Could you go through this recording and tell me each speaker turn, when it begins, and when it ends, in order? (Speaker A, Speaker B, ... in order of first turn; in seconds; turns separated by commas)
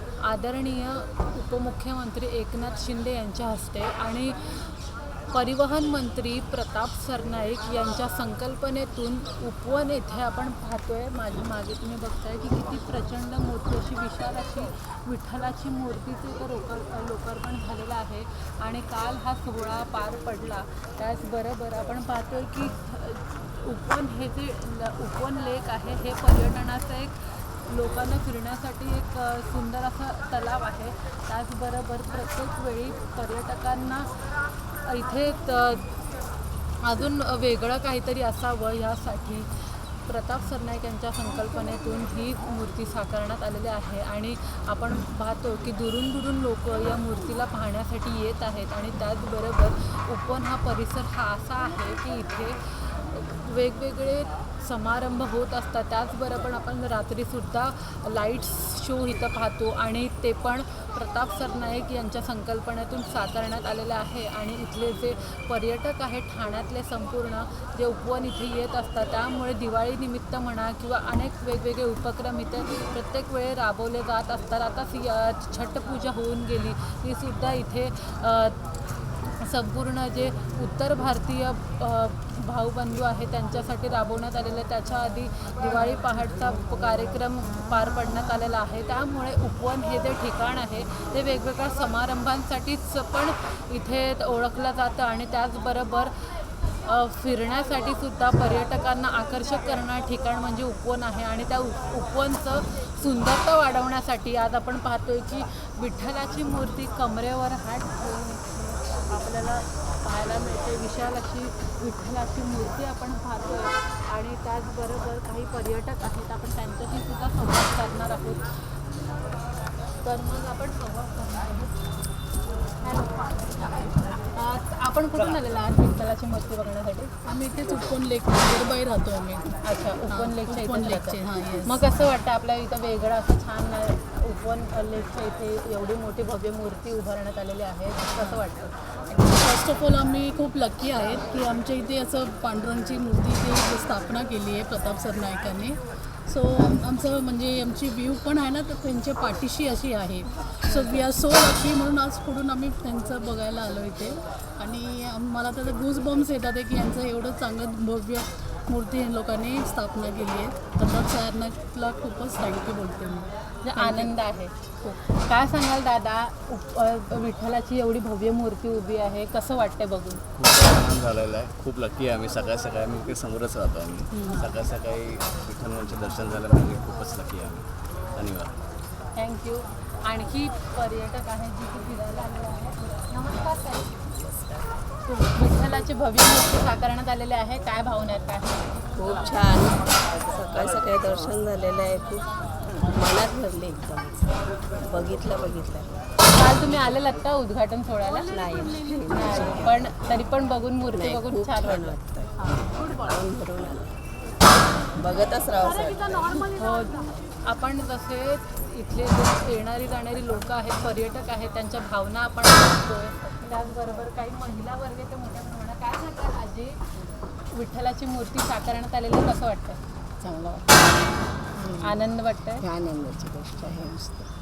Speaker A: 0.2-4.7, Speaker A: 5.3-34.1, Speaker A: 34.8-35.9, Speaker A: 36.8-78.6, Speaker A: 79.4-96.2, Speaker A: 96.8-118.8, Speaker A: 120.0-122.0, Speaker A: 122.8-127.1, Speaker B: 127.2-131.9, Speaker A: 129.6-138.8, Speaker B: 139.1-164.1, Speaker A: 150.7-151.1, Speaker A: 163.6-170.2, Speaker C: 170.4-178.6, Speaker A: 174.1-174.5, Speaker A: 179.2-184.0, Speaker A: 185.1-188.7, Speaker D: 189.0-195.9, Speaker A: 196.2-202.7, Speaker D: 198.3-199.8, Speaker D: 201.0-202.3, Speaker D: 202.9-204.0, Speaker D: 205.0-206.5, Speaker A: 206.6-216.8, Speaker A: 217.5-219.8, Speaker D: 220.2-220.7, Speaker D: 221.6-221.9, Speaker A: 221.8-222.7, Speaker D: 222.6-224.3